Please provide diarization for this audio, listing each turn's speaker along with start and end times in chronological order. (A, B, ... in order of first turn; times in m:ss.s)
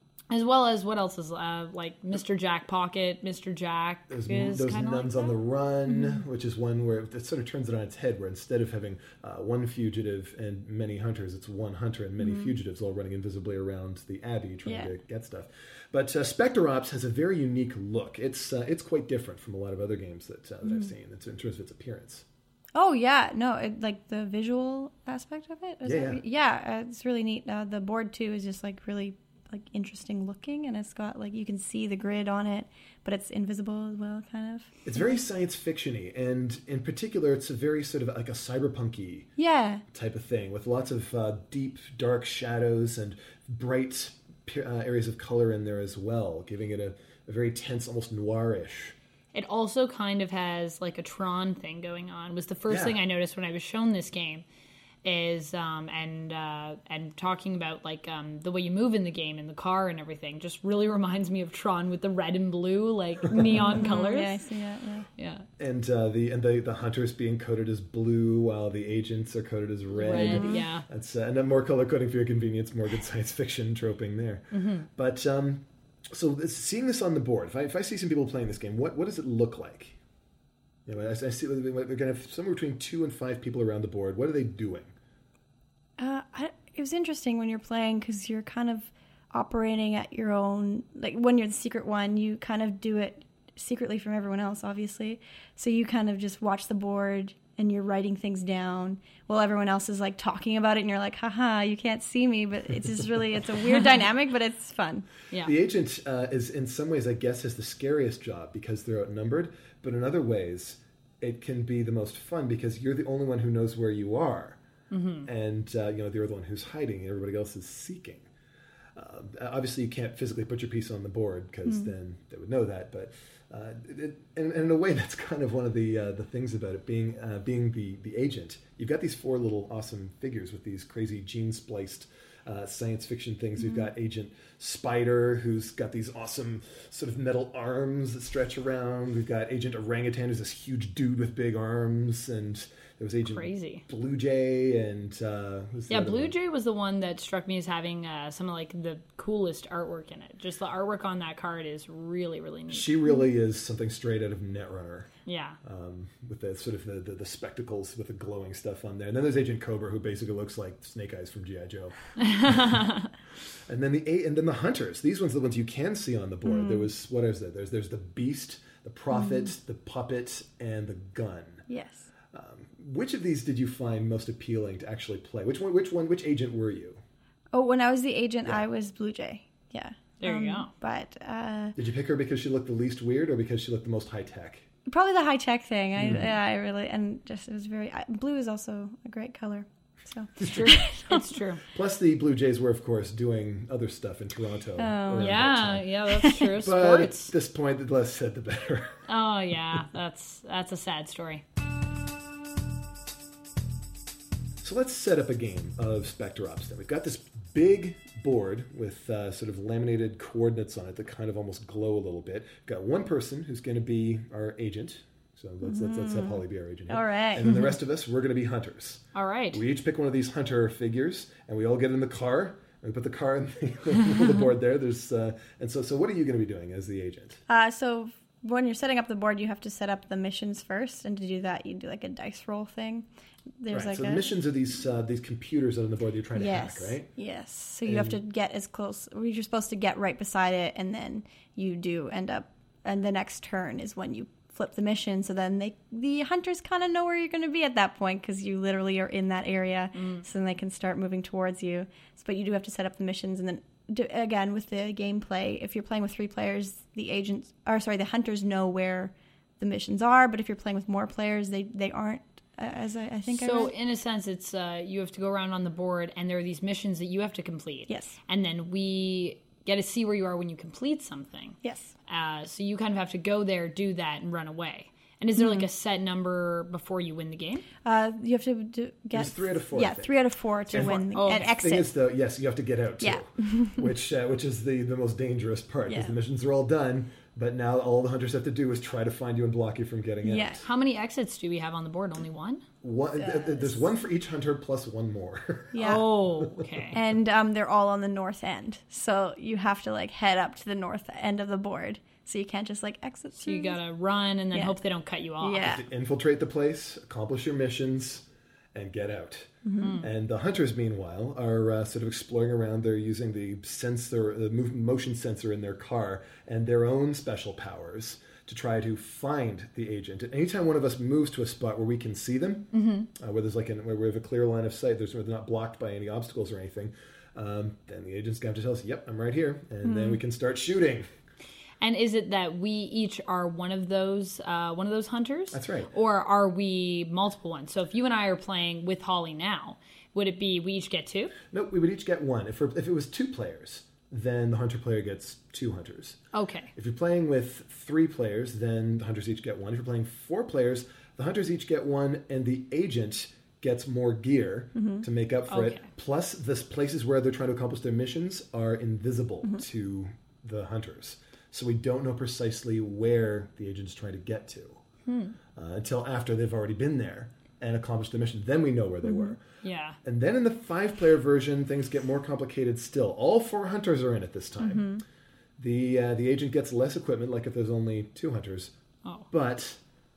0:00.3-0:05.4 A
0:04.1-0:22.2 B
0:12.2-0:12.5 C
0:14.6-0:14.9 C
0:22.8-0:34.8 C
0:25.8-0:26.2 B
0:34.8-0:39.3 B
0:39.4-0:39.8 C
0:39.9-0:48.9 B
0:49.3-0:54.4 A
0:52.7-0:53.0 B
0:55.0-1:04.5 A
1:03.5-1:05.1 C
1:05.2-1:05.4 A
1:05.6-1:20.0 B
1:09.9-1:10.8 A
1:10.1-1:10.6 C
1:14.5-1:14.9 A
1:20.8-1:24.9 B
1:26.0-1:45.1 C
1:45.4-1:54.6 B
1:54.9-1:55.3 A
1:55.2-1:58.3 B
1:59.0-2:26.3 B
2:23.2-2:23.8 A
2:25.9-2:32.9 A
2:32.7-2:35.1 B
2:35.3-2:35.6 A
2:35.6-2:42.8 B
2:42.3-2:43.0 A
2:43.7-2:51.6 B
2:46.4-2:46.9 C
2:49.1-2:49.5 C
2:51.7-2:52.1 C
2:52.3-2:57.0 B
2:57.5-3:01.8 C
3:00.2-3:00.7 A
3:01.8-3:04.7 B
3:04.9-3:11.2 C
3:06.0-3:06.3 B
3:10.4-3:11.6 A
3:11.7-3:15.9 B
3:14.8-3:15.4 C
3:15.2-3:17.3 A
3:16.1-3:16.5 C
3:16.5-3:19.0 B
3:19.1-3:21.4 A
3:24.6-3:47.4 B
3:35.6-3:37.7 C
3:39.2-3:39.6 A
3:47.5-3:53.1 C
3:53.6-3:54.3 C
3:53.7-3:57.1 B
3:56.3-4:23.7 C
3:57.8-3:58.2 B
4:10.0-4:10.2 A
4:23.3-4:37.6 A
4:27.9-4:28.2 C
4:31.6-4:31.9 C
4:35.4-4:35.6 C
4:37.8-4:41.9 C
4:39.1-4:41.1 B
4:40.9-4:41.6 A
4:41.6-4:50.6 B
4:43.0-4:43.9 C
4:45.9-4:46.1 C
4:50.2-4:50.6 C
4:50.6-4:52.6 A
4:52.8-4:56.7 B
4:53.2-4:53.9 C
4:55.7-4:56.1 C
4:55.8-4:57.0 A
4:56.9-5:03.8 C
5:03.3-5:05.8 A
5:05.4-5:05.8 C
5:05.6-5:31.1 B
5:09.6-5:10.0 C
5:09.8-5:10.0 A
5:22.7-5:23.1 A
5:29.8-5:30.2 C
5:31.8-5:41.3 A
5:35.5-5:35.9 B
5:41.5-5:46.2 B
5:46.3-5:46.7 A
5:46.8-6:04.8 B
5:54.8-5:55.0 C
5:55.5-5:55.9 A
6:05.0-6:05.4 A
6:05.5-6:09.4 B
6:09.0-6:09.4 C
6:09.6-6:10.0 A
6:10.0-6:14.9 B
6:14.6-6:15.0 C
6:15.6-6:18.7 B
6:19.3-6:19.8 B